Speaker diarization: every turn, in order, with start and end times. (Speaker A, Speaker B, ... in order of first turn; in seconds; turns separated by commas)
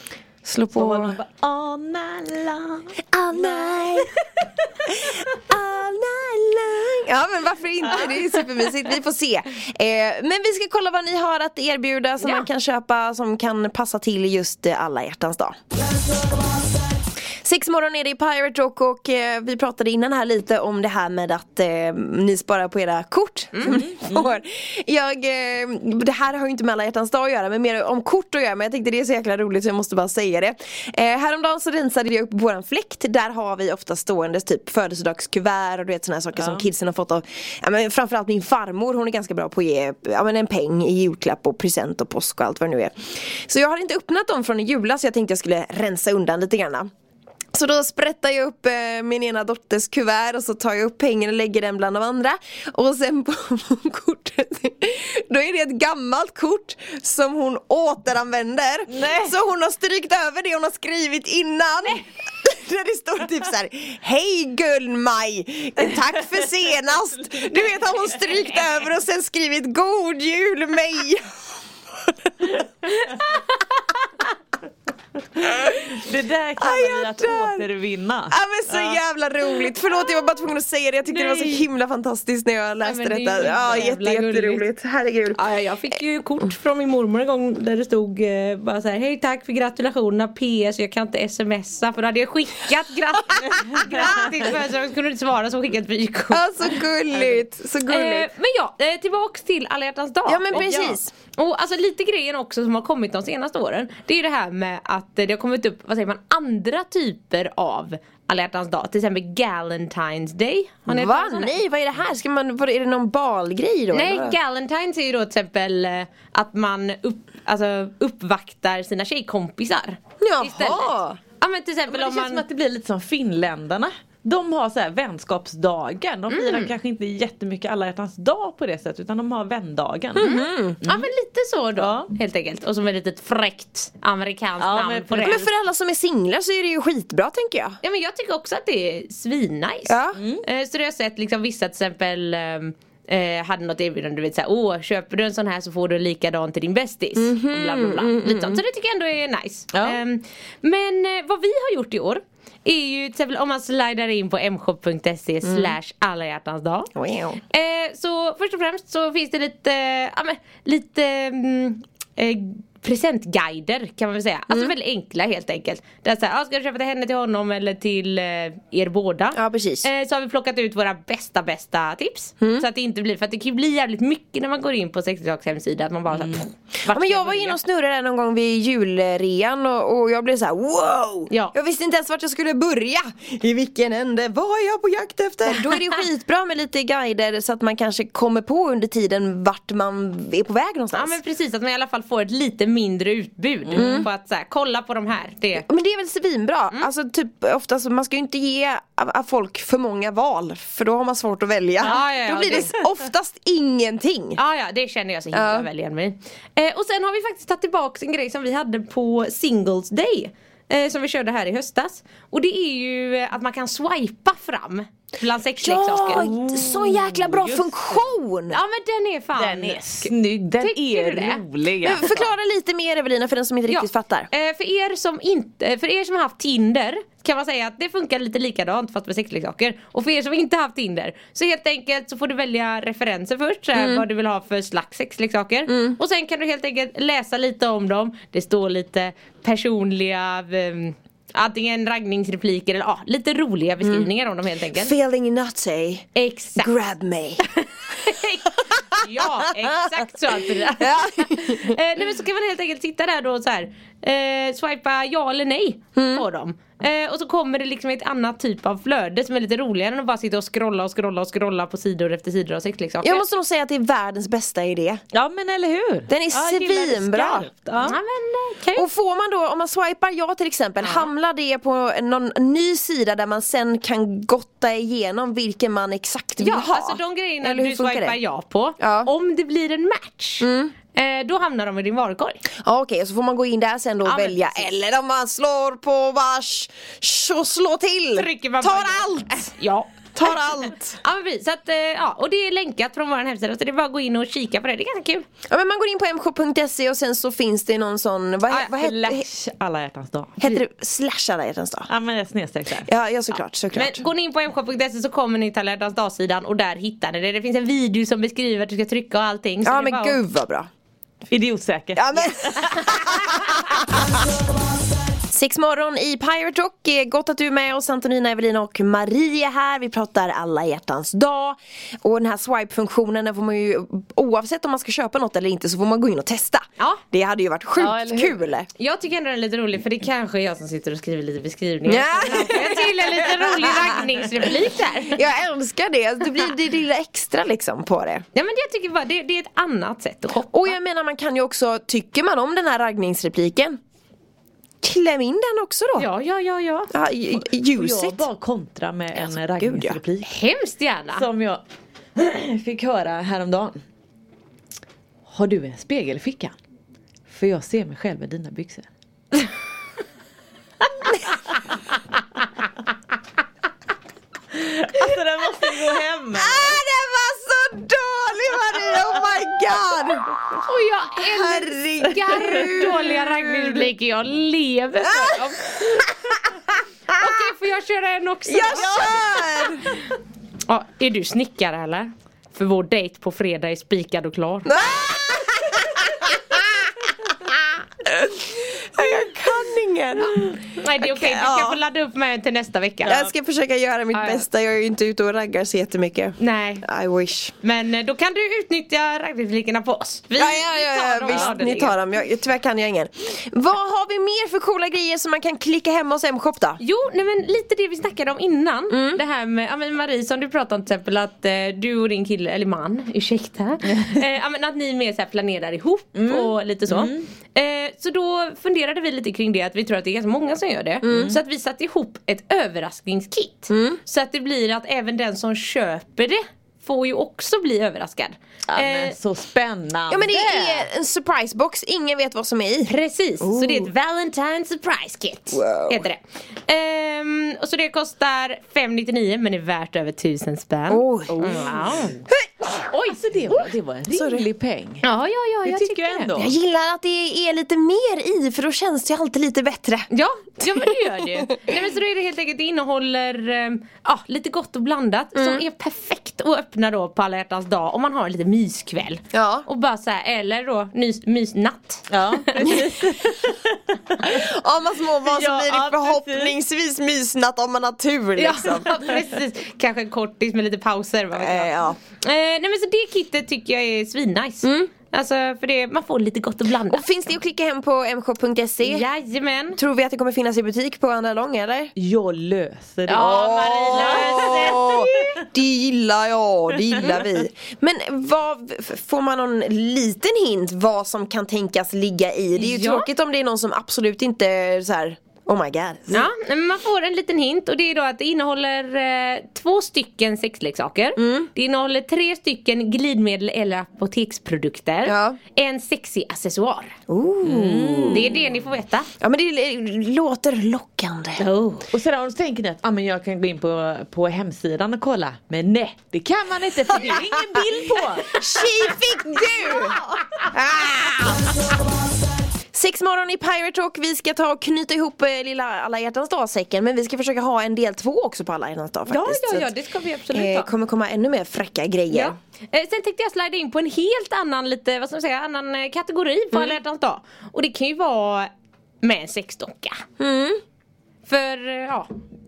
Speaker A: 0.4-1.2, Speaker B: 0.7-4.1, Speaker A: 3.1-4.1, Speaker A: 4.9-15.6, Speaker B: 7.9-8.2, Speaker A: 17.4-46.9, Speaker C: 23.5-23.8, Speaker B: 23.6-24.4, Speaker B: 36.3-36.7, Speaker A: 47.5-71.2, Speaker B: 58.9-59.3, Speaker B: 75.4-79.0, Speaker A: 76.6-77.7, Speaker A: 78.3-85.5, Speaker C: 81.1-81.7, Speaker C: 82.8-84.7, Speaker B: 83.4-83.8, Speaker C: 85.3-96.8, Speaker A: 94.0-94.3, Speaker A: 96.3-98.3, Speaker C: 97.9-111.6, Speaker A: 100.2-101.1, Speaker B: 100.5-101.0, Speaker A: 110.9-114.4, Speaker C: 113.9-122.4, Speaker A: 120.2-121.2, Speaker B: 121.9-131.1, Speaker C: 126.3-126.7, Speaker A: 130.2-130.8, Speaker C: 130.2-135.4, Speaker B: 131.8-132.1, Speaker B: 134.6-135.4, Speaker A: 135.2-137.8, Speaker C: 137.8-156.9, Speaker A: 139.9-140.2, Speaker B: 140.2-140.4, Speaker A: 147.2-148.6, Speaker B: 149.7-150.0, Speaker A: 155.4-155.8, Speaker A: 156.9-157.4, Speaker C: 157.5-177.6, Speaker A: 169.3-169.9, Speaker A: 176.9-191.2, Speaker C: 190.9-195.7, Speaker B: 193.6-194.0, Speaker A: 193.8-194.1, Speaker A: 195.6-204.4, Speaker C: 201.8-202.7, Speaker B: 201.8-202.8, Speaker C: 204.4-216.3, Speaker A: 205.3-205.7, Speaker A: 215.6-218.6, Speaker B: 215.9-218.1, Speaker C: 218.5-221.4, Speaker B: 219.4-222.3, Speaker A: 221.8-224.3, Speaker C: 223.7-244.9, Speaker A: 233.8-234.0, Speaker A: 235.7-236.0, Speaker A: 243.8-244.1, Speaker A: 244.7-247.4, Speaker C: 246.1-246.7, Speaker C: 247.4-263.2, Speaker A: 250.7-251.8, Speaker A: 255.9-256.2, Speaker A: 263.0-265.0, Speaker B: 265.1-268.0, Speaker A: 266.1-267.9, Speaker C: 267.8-268.9, Speaker A: 268.8-278.2, Speaker C: 270.8-271.1, Speaker C: 276.4-282.4, Speaker A: 278.8-279.1, Speaker A: 280.4-280.7, Speaker A: 282.6-289.5, Speaker C: 284.0-284.7, Speaker C: 288.1-295.2, Speaker A: 290.1-291.0, Speaker A: 295.5-299.2, Speaker B: 298.5-300.6, Speaker A: 300.4-301.9, Speaker B: 301.9-302.9, Speaker A: 302.8-304.0, Speaker C: 303.7-310.2, Speaker A: 309.6-310.7, Speaker B: 311.3-313.1, Speaker A: 311.9-314.0, Speaker A: 315.3-328.7, Speaker B: 327.8-328.4, Speaker C: 328.8-335.2, Speaker A: 331.9-334.0, Speaker A: 335.1-338.2, Speaker C: 338.3-340.8, Speaker A: 340.4-343.8, Speaker A: 344.8-346.1, Speaker C: 346.0-346.9, Speaker A: 346.9-348.2, Speaker B: 347.6-350.3, Speaker A: 349.1-350.0, Speaker C: 350.2-351.2, Speaker B: 351.1-351.6, Speaker B: 352.1-353.8, Speaker B: 355.3-356.5, Speaker B: 357.3-358.9, Speaker B: 364.5-366.8, Speaker A: 366.3-370.3, Speaker C: 370.6-376.4, Speaker A: 371.2-373.9, Speaker A: 375.0-376.3, Speaker C: 377.1-380.1, Speaker A: 378.4-379.9, Speaker C: 380.6-384.7, Speaker A: 384.6-386.8, Speaker A: 387.4-391.8, Speaker C: 390.8-393.2, Speaker A: 393.0-397.5, Speaker C: 394.1-394.4, Speaker C: 396.4-396.9, Speaker C: 397.6-402.0, Speaker A: 400.4-406.8, Speaker C: 406.8-429.1, Speaker A: 408.9-409.2, Speaker B: 416.1-417.2, Speaker A: 421.0-421.4, Speaker B: 421.0-421.4, Speaker A: 423.7-424.0, Speaker B: 428.7-430.9, Speaker A: 430.1-433.9, Speaker C: 432.9-442.1, Speaker A: 435.5-436.1, Speaker A: 440.9-441.7, Speaker B: 441.3-442.2, Speaker C: 442.9-443.2, Speaker B: 443.0-445.0, Speaker A: 444.1-444.5, Speaker C: 445.0-446.3, Speaker B: 445.6-446.5, Speaker A: 446.4-450.1, Speaker C: 450.1-462.8, Speaker A: 450.6-451.7, Speaker A: 455.3-455.6, Speaker A: 459.3-459.7, Speaker B: 462.1-464.4, Speaker A: 464.2-469.1, Speaker B: 465.2-466.5, Speaker C: 468.4-477.1, Speaker A: 471.3-472.0, Speaker A: 474.6-474.9, Speaker A: 476.9-479.1, Speaker C: 478.8-479.8, Speaker A: 479.7-481.9, Speaker B: 481.9-485.1, Speaker C: 483.1-485.4, Speaker A: 483.1-496.3, Speaker C: 492.6-493.1, Speaker C: 496.1-506.9, Speaker A: 501.2-501.5, Speaker A: 505.0-505.4, Speaker A: 507.1-508.3, Speaker B: 507.4-508.4, Speaker C: 508.1-509.1, Speaker A: 509.2-511.4, Speaker C: 511.4-511.9, Speaker B: 511.9-518.4, Speaker A: 518.3-520.0, Speaker B: 519.4-520.3, Speaker A: 520.5-521.6, Speaker A: 522.7-529.7, Speaker C: 529.1-530.7, Speaker A: 530.3-532.3, Speaker C: 532.1-538.5, Speaker C: 539.0-540.0, Speaker A: 540.2-540.6, Speaker C: 541.3-542.1